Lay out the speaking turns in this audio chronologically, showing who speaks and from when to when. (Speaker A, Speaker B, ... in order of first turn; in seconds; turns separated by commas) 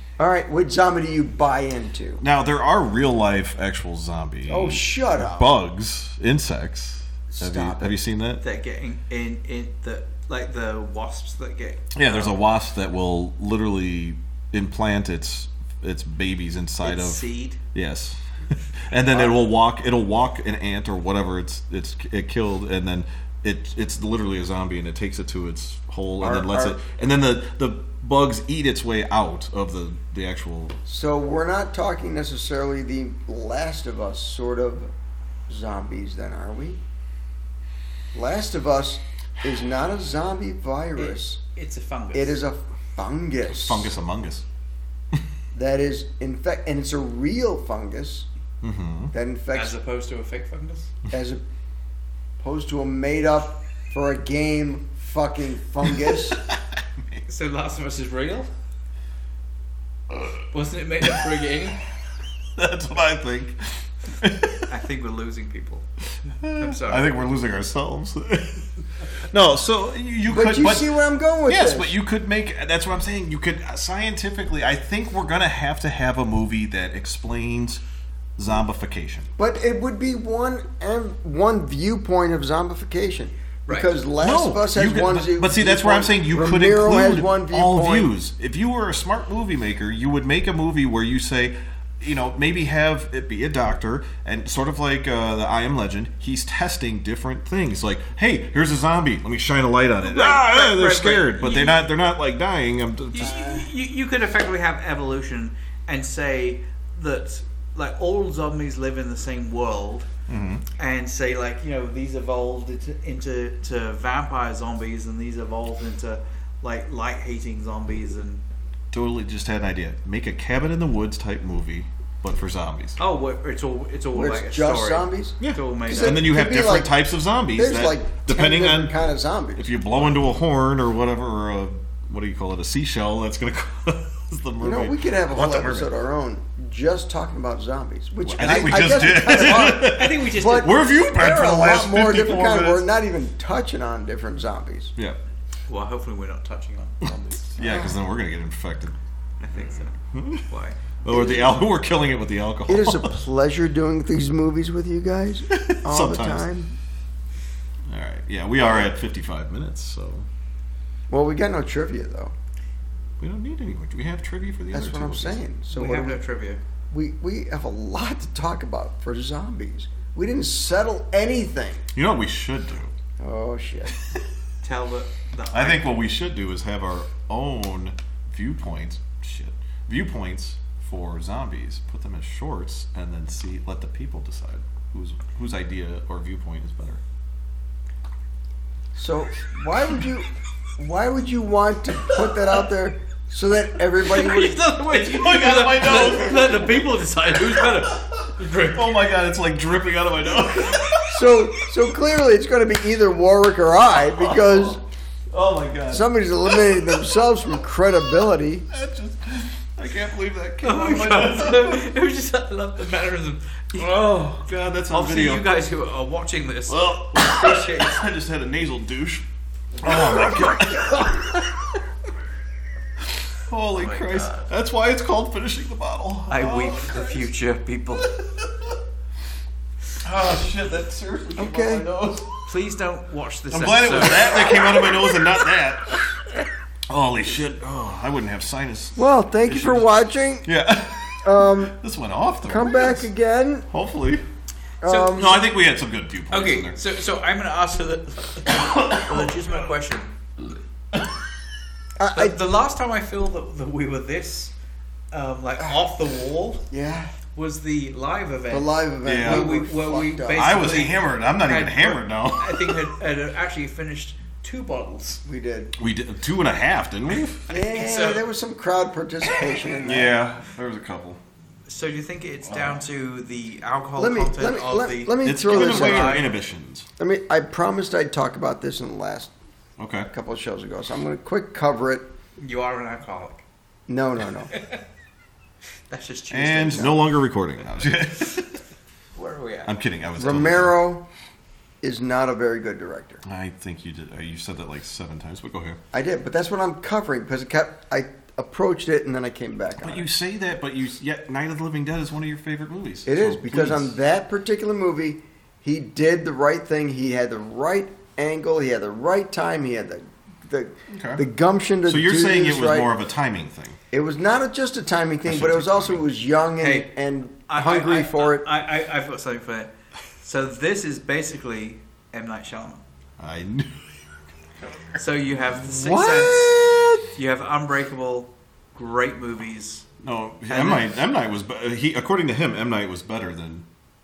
Speaker A: 0.2-2.2, Speaker B: 2.2-8.4, Speaker A: 4.5-5.5, Speaker A: 7.3-7.9, Speaker C: 8.4-12.3, Speaker B: 11.9-18.2, Speaker C: 16.8-17.6, Speaker B: 18.8-30.8, Speaker A: 26.2-26.8, Speaker A: 30.9-34.9, Speaker A: 35.5-36.8, Speaker A: 38.1-41.4, Speaker C: 41.0-42.4, Speaker A: 42.1-43.9, Speaker B: 43.5-44.4, Speaker A: 45.5-48.3, Speaker B: 48.6-49.1, Speaker A: 49.1-49.8, Speaker C: 49.5-50.9, Speaker A: 51.1-51.4, Speaker A: 52.4-56.4, Speaker B: 55.8-57.2, Speaker C: 57.3-58.5, Speaker B: 60.1-60.4, Speaker C: 60.5-61.8, Speaker B: 62.5-64.7, Speaker C: 64.7-65.8, Speaker B: 66.4-77.8, Speaker C: 66.4-67.1, Speaker A: 70.3-71.9, Speaker B: 78.4-79.3, Speaker A: 79.4-88.1, Speaker B: 84.2-103.6, Speaker C: 100.0-101.8, Speaker C: 103.1-110.1, Speaker B: 110.3-110.6, Speaker C: 110.8-118.4, Speaker B: 118.9-123.0, Speaker C: 123.0-126.2, Speaker A: 124.1-126.9, Speaker B: 125.4-128.9, Speaker A: 127.5-129.7, Speaker B: 129.6-135.9, Speaker A: 134.6-144.9, Speaker B: 138.2-142.9, Speaker C: 139.4-140.8, Speaker C: 145.7-147.6, Speaker B: 147.0-148.9, Speaker A: 147.6-147.9, Speaker C: 149.4-150.8, Speaker B: 149.5-150.4, Speaker B: 151.0-153.1, Speaker A: 151.1-151.6, Speaker A: 152.7-156.7, Speaker B: 155.5-156.5, Speaker B: 157.9-160.3, Speaker A: 161.1-162.3, Speaker B: 163.2-165.4, Speaker A: 164.7-166.2, Speaker C: 165.7-166.6, Speaker A: 166.9-171.8, Speaker B: 171.9-172.9, Speaker A: 173.2-173.9, Speaker C: 174.6-175.9, Speaker B: 175.5-187.0, Speaker A: 188.9-194.6, Speaker C: 194.0-198.9, Speaker B: 194.8-201.4, Speaker A: 201.1-204.8, Speaker B: 203.9-207.2, Speaker A: 205.9-208.7, Speaker B: 208.7-211.8, Speaker C: 210.6-214.3, Speaker B: 213.7-215.5, Speaker C: 214.9-218.1, Speaker B: 216.7-219.2, Speaker B: 219.8-221.6, Speaker C: 220.0-221.0, Speaker B: 223.3-227.3, Speaker C: 223.8-224.4, Speaker C: 226.3-228.1, Speaker B: 227.9-228.8, Speaker B: 230.0-232.5, Speaker A: 231.3-231.8, Speaker C: 232.4-234.7, Speaker B: 233.5-236.1, Speaker B: 236.9-239.9, Speaker A: 238.9-240.5, Speaker B: 240.4-243.1, Speaker A: 241.2-241.8, Speaker A: 242.4-243.7, Speaker B: 243.7-244.2, Speaker A: 244.8-245.4, Speaker C: 244.8-245.4, Speaker B: 245.1-246.8, Speaker C: 246.3-250.1, Speaker B: 248.5-249.4, Speaker A: 252.0-252.4, Speaker C: 252.1-254.5, Speaker C: 255.1-256.6, Speaker A: 256.7-257.1, Speaker C: 257.3-265.2, Speaker A: 258.5-260.6, Speaker B: 259.0-259.5, Speaker B: 260.3-262.9, Speaker A: 265.2-265.8, Speaker B: 265.8-267.4, Speaker C: 267.5-268.2, Speaker A: 267.5-270.1, Speaker B: 269.8-271.2, Speaker C: 271.7-276.3, Speaker B: 272.4-272.8, Speaker A: 274.0-276.2, Speaker B: 275.2-276.9, Speaker A: 277.0-279.3, Speaker B: 279.8-280.1, Speaker A: 280.1-282.1, Speaker C: 282.4-283.4, Speaker A: 283.9-284.5, Speaker C: 284.5-284.8, Speaker C: 285.9-286.9, Speaker B: 286.3-288.6, Speaker C: 289.1-289.7, Speaker B: 289.6-290.7, Speaker A: 290.2-291.1, Speaker A: 291.8-293.2, Speaker B: 293.2-295.8, Speaker A: 295.9-300.1, Speaker B: 299.8-303.9, Speaker A: 303.1-312.9, Speaker B: 310.9-311.2, Speaker B: 311.9-313.8, Speaker A: 313.9-318.5, Speaker B: 315.2-316.0, Speaker C: 316.6-316.9, Speaker C: 317.5-322.8, Speaker B: 323.2-324.0, Speaker C: 325.0-329.9, Speaker A: 325.7-327.0, Speaker B: 330.0-333.6, Speaker C: 330.5-330.9